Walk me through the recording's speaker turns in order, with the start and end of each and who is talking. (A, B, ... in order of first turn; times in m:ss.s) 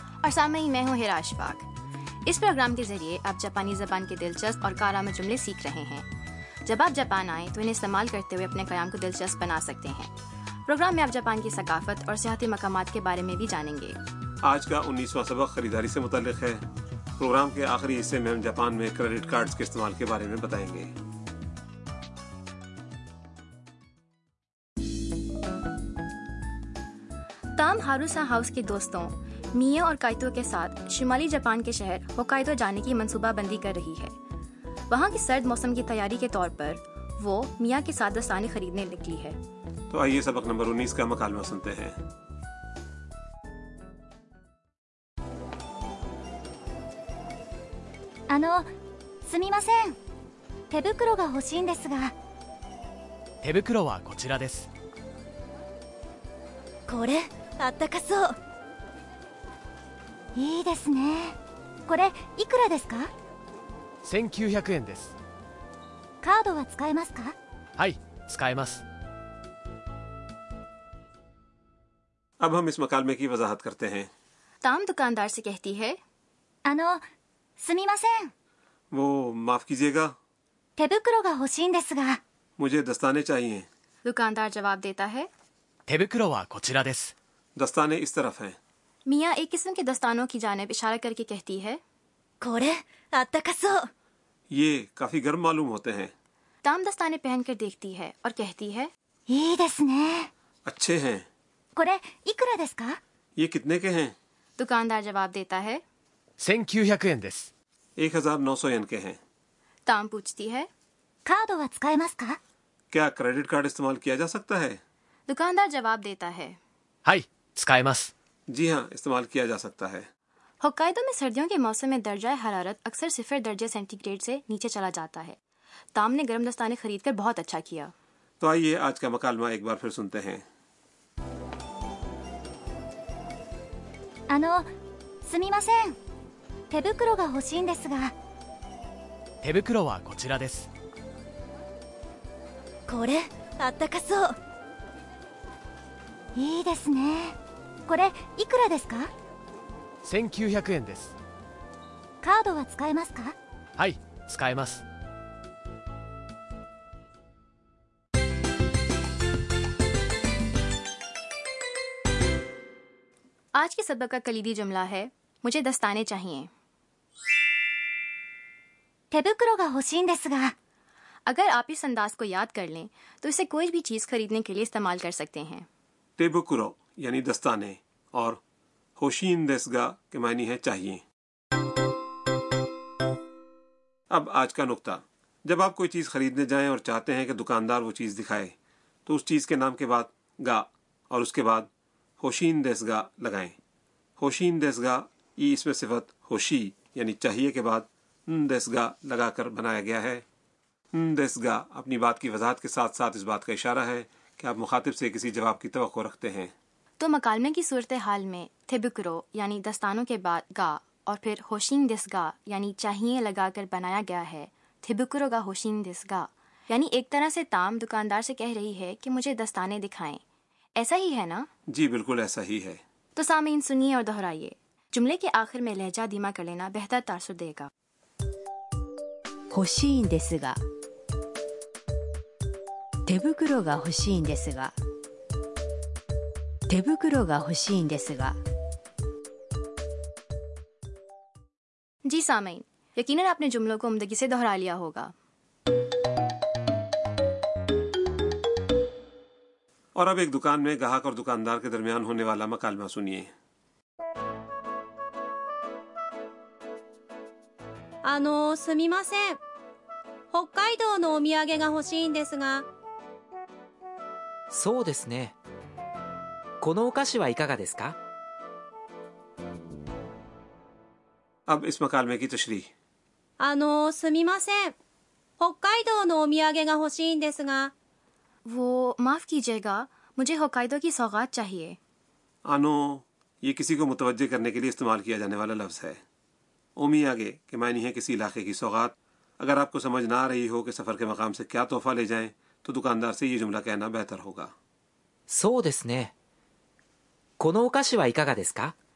0:00.2-0:01.7 A
0:02.2-0:06.1 A
0:06.6-0:10.1 A
0:10.6-0:14.0 A
0:14.4-0:16.6 B
0:17.2-0:20.9 B
0:27.5-0:34.1 A
0:34.9-0:39.4 A
0:39.9-0:42.0 B
0:48.3-0:48.7 C
0:49.3-0:50.0 C
0:50.7-0:52.1 C
0:53.4-0:54.7 D
0:56.9-0:58.3 C
1:00.4-1:03.1 C
1:04.0-1:05.1 D
1:06.2-1:07.3 C
1:07.8-1:08.8 D
1:12.4-1:14.1 B
1:14.6-1:16.0 A
1:16.7-1:17.0 C
1:17.6-1:18.3 C
1:18.9-1:20.1 B
1:20.8-1:22.2 C
1:22.6-1:23.7 B
1:24.0-1:25.3 A
1:25.9-1:27.1 D
1:27.6-1:28.6 B
1:29.1-1:31.8 A
1:32.4-1:33.9 C
1:34.5-1:36.1 B
1:36.6-1:38.9 A
1:39.3-1:40.3 C
1:40.7-1:41.3 B
1:41.8-1:43.0 C
1:43.4-1:44.2 B
1:44.6-1:45.8 A
1:46.4-1:47.5 D
1:48.0-1:49.2 B
1:49.9-1:50.7 A
1:51.3-1:52.4 C
1:52.9-1:54.8 B
1:55.3-1:56.6 A
1:57.0-1:58.1 D
1:58.5-2:00.1 B
2:00.6-2:05.4 A
2:06.0-2:07.9 A
2:08.4-2:10.4 B
2:14.3-2:14.7 C
2:15.2-2:15.9 C
2:16.7-2:18.1 C
2:19.4-2:20.7 D
2:22.9-2:24.4 C
2:26.4-2:29.1 C
2:30.0-2:31.1 D
2:32.2-2:33.3 C
2:33.8-2:34.8 D
2:43.5-2:46.5 A
2:49.1-2:50.5 C
2:51.2-2:55.7 A
2:56.2-2:58.4 B
2:59.0-3:01.0 B
3:04.1-3:08.5 B
3:09.0-3:11.7 B
3:12.2-3:13.6 B
3:14.2-3:20.2 B
3:20.9-3:26.5 B
3:27.0-3:40.2 A
3:40.8-3:41.5 A
3:41.7-3:42.8 B
3:43.1-3:47.7 A
3:49.5-3:50.6 E
3:53.1-3:54.7 E
3:56.7-3:58.4 E
4:02.1-4:05.1 A
4:09.9-4:13.3 B
4:18.0-4:19.4 F
4:20.3-4:22.6 F
4:24.5-4:25.3 G
4:26.6-4:28.0 G
4:31.5-4:32.7 B
4:33.4-4:34.7 F
4:35.4-4:37.7 F
4:38.4-4:41.8 A
4:42.4-4:46.0 B
4:46.8-4:54.5 B
4:55.3-4:56.1 G
4:57.4-4:58.8 G